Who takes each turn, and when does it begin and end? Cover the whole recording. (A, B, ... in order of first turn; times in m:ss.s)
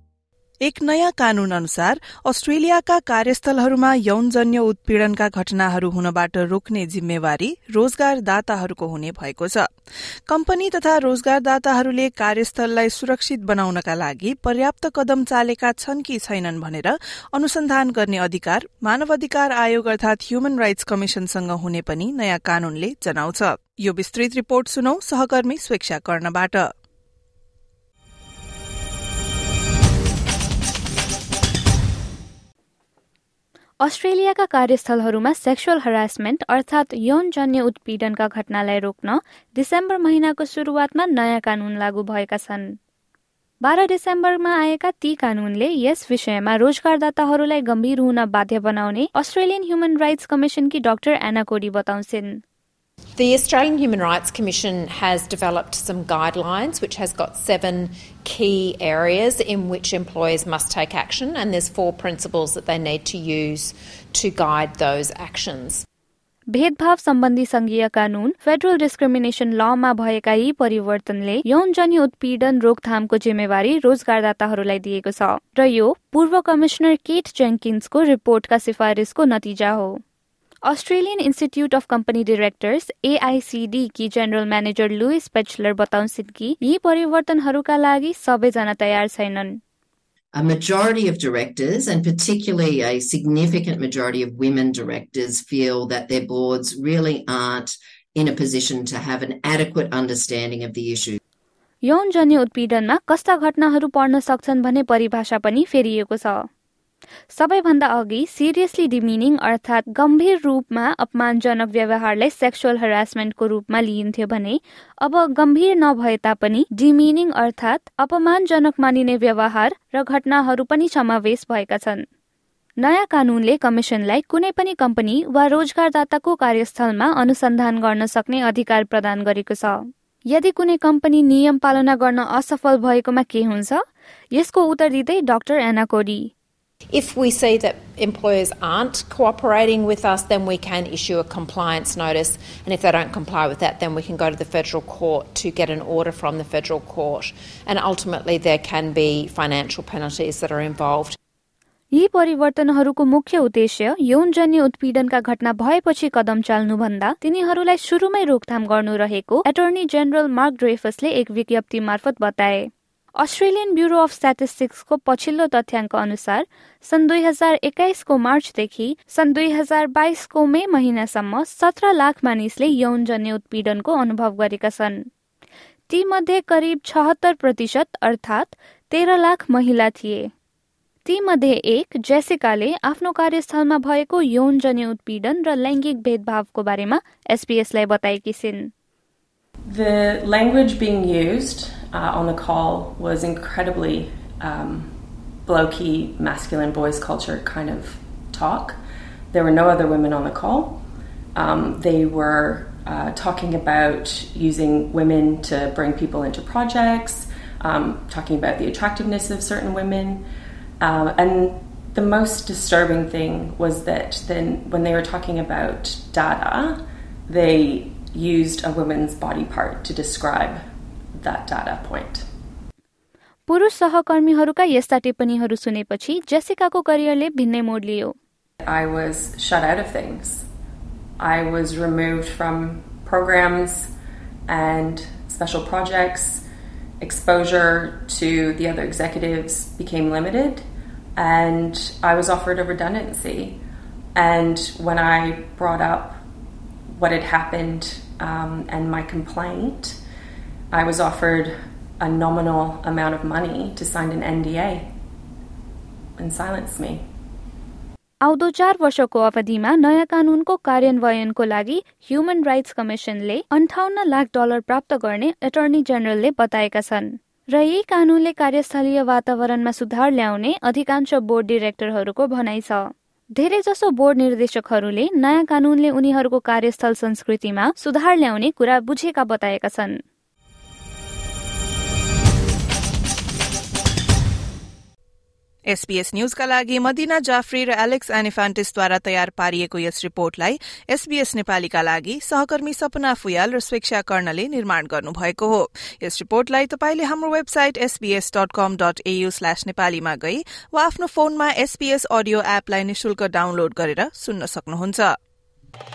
0:00.6-0:09.7 A
0:10.3-0:26.7 A
0:33.8-0:42.8 B
0:43.6-0:52.4 B
0:53.2-1:05.8 C
1:06.5-1:20.0 B
1:20.7-1:29.6 B
1:30.3-1:41.2 D
1:41.8-1:46.5 B
1:47.3-2:02.0 B
2:02.8-2:13.8 B
2:14.3-2:16.3 B
2:16.9-2:31.2 C
2:31.9-2:55.0 B
2:55.9-3:00.3 B
3:01.0-3:08.7 B
3:09.7-3:14.9 E
3:15.5-3:18.8 E
3:19.3-3:20.8 E
3:21.4-3:30.2 E
3:30.8-3:40.6 E
3:41.2-3:42.3 E
3:43.5-3:48.2 B
3:48.6-3:50.5 E
3:51.2-3:53.9 E
3:54.5-3:56.4 E
3:57.0-4:03.6 E
4:04.2-4:06.2 E
4:06.9-4:10.0 E
4:10.7-4:14.9 E
4:16.2-4:17.0 E
4:18.2-4:40.0 B
4:45.7-5:05.2 A